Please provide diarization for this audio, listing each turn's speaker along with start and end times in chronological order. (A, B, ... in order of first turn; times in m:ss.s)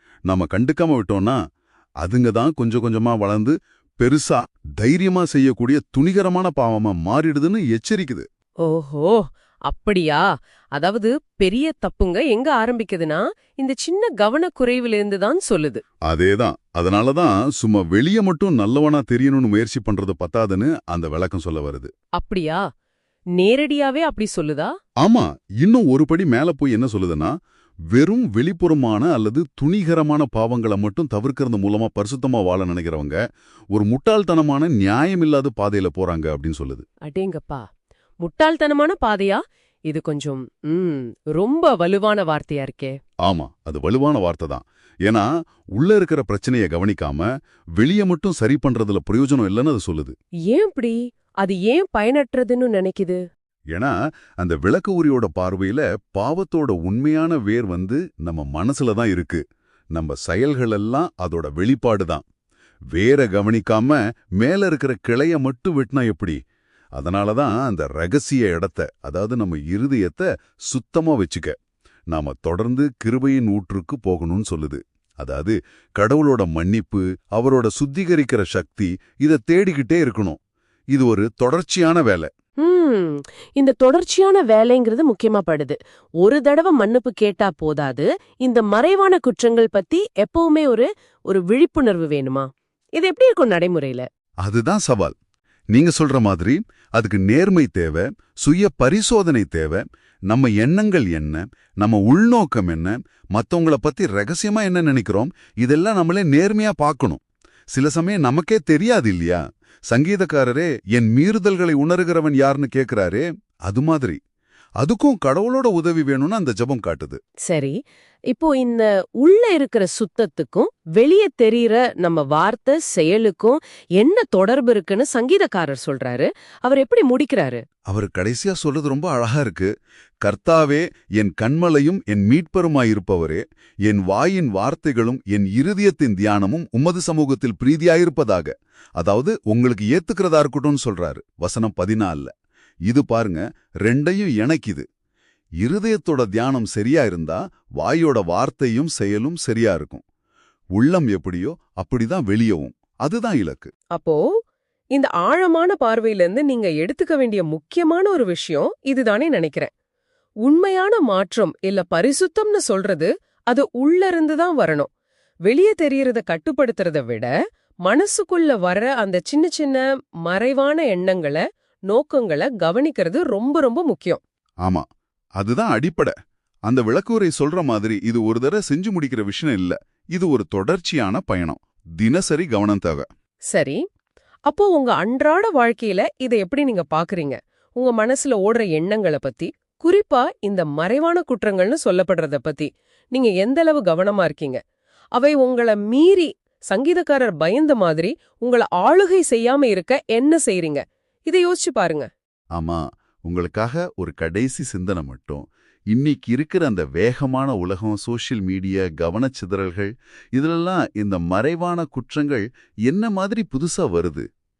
0:00.3-0:01.4 A
0:02.0-0:08.2 A
0:08.6-0:15.8 B
0:16.0-0:21.9 A
0:22.2-0:22.6 B
0:23.4-0:24.7 B
0:25.0-0:27.3 A
0:27.9-0:33.2 A
0:33.7-0:36.8 A
0:37.0-0:37.6 B
0:38.2-0:42.9 B
0:43.2-0:50.1 A
0:50.5-0:53.2 B
0:53.7-0:59.4 A
0:59.9-1:02.2 A
1:02.9-1:06.4 A
1:07.0-1:11.5 A
1:12.1-1:20.4 A
1:20.9-1:22.3 A
1:22.6-1:34.0 B
1:34.4-1:35.1 A
1:35.7-1:47.2 A
1:47.7-1:54.2 A
1:54.8-1:57.2 A
1:57.5-1:57.7 B
1:58.3-2:07.6 B
2:07.9-2:09.7 A
2:10.2-2:22.3 A
2:22.8-2:24.8 A
2:25.6-2:30.0 A
2:30.8-2:33.7 A
2:33.9-2:34.2 B
2:34.9-2:39.7 B
2:40.4-2:44.9 B
2:45.4-2:47.3 B
2:47.8-2:54.2 B
2:55.4-2:56.1 A
2:56.7-3:03.0 A
3:03.5-3:03.8 B
3:04.5-3:14.6 B
3:15.1-3:22.1 B
3:22.6-3:34.2 A